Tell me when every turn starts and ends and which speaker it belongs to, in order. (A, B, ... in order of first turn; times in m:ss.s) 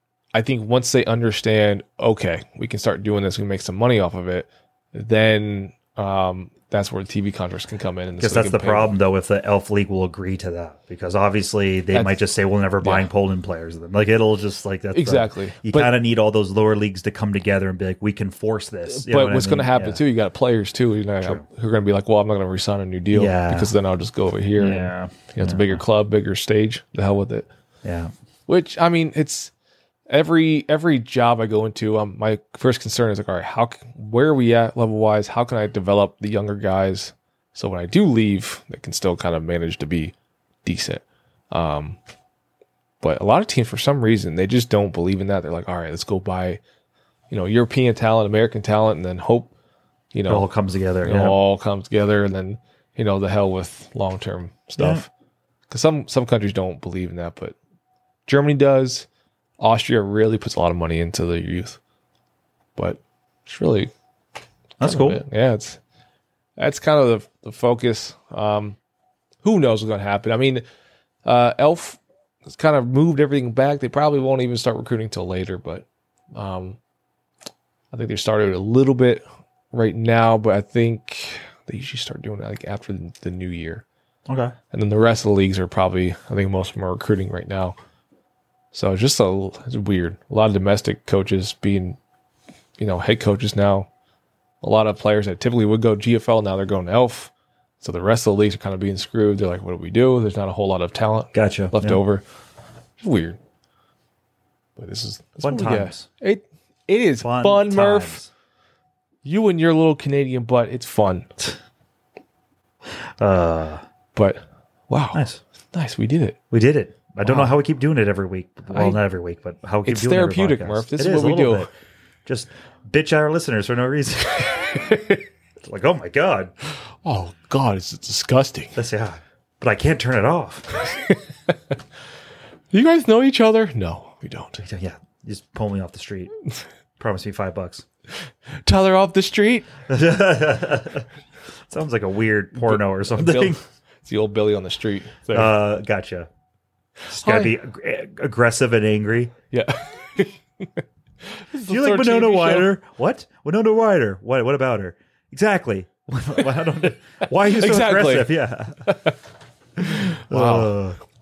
0:00.3-0:08.9 A
0:08.2-0:20.0 B
0:11.9-0:12.2 A
0:12.8-0:13.1 A
0:14.9-0:15.9 A
0:18.9-0:27.5 A
0:23.1-0:23.7 B
0:24.6-0:25.8 B
0:27.8-0:28.1 B
0:28.5-0:29.5 A
0:30.1-0:42.0 A
0:43.0-0:46.6 A
0:47.3-0:49.5 A
0:50.1-0:50.5 A
0:50.3-0:51.4 B
0:51.0-0:55.1 A
0:54.8-0:55.0 B
0:55.7-0:57.6 A
0:58.2-0:59.1 A
0:59.6-1:01.8 A
1:02.8-1:03.9 A
1:04.8-1:05.2 B
1:04.8-1:05.8 A
1:06.6-1:08.8 A
1:09.4-1:10.6 A
1:11.2-1:16.8 A
1:17.9-1:23.8 A
1:24.3-1:24.5 B
1:24.7-1:27.8 A
1:28.7-1:32.0 A
1:32.8-1:33.9 A
1:34.6-1:42.2 A
1:41.3-1:42.0 B
1:43.0-1:43.4 A
1:44.8-1:48.2 A
1:45.4-1:46.0 B
1:47.2-1:48.3 B
1:49.2-1:51.5 A
1:53.2-1:53.8 B
1:54.1-1:56.4 A
1:55.1-1:55.4 B
1:56.5-2:01.7 B
1:57.2-1:57.5 A
1:58.7-1:59.0 A
1:59.8-2:01.7 A
2:02.2-2:04.8 B
2:04.7-2:05.2 A
2:05.6-2:06.5 B
2:07.0-2:08.8 A
2:08.8-2:10.8 B
2:10.8-2:11.8 A
2:12.7-2:14.6 A
2:14.6-2:16.3 B
2:17.0-2:17.8 B
2:18.6-2:19.7 A
2:19.9-2:21.0 B
2:21.7-2:23.6 B
2:22.6-2:25.5 A
2:25.3-2:26.3 B
2:27.1-2:27.5 A
2:27.1-2:29.3 B
2:29.5-2:32.7 A
2:31.6-2:38.9 B
2:37.3-2:38.3 A
2:38.8-2:39.2 A
2:39.8-2:40.8 A
2:39.8-2:41.0 B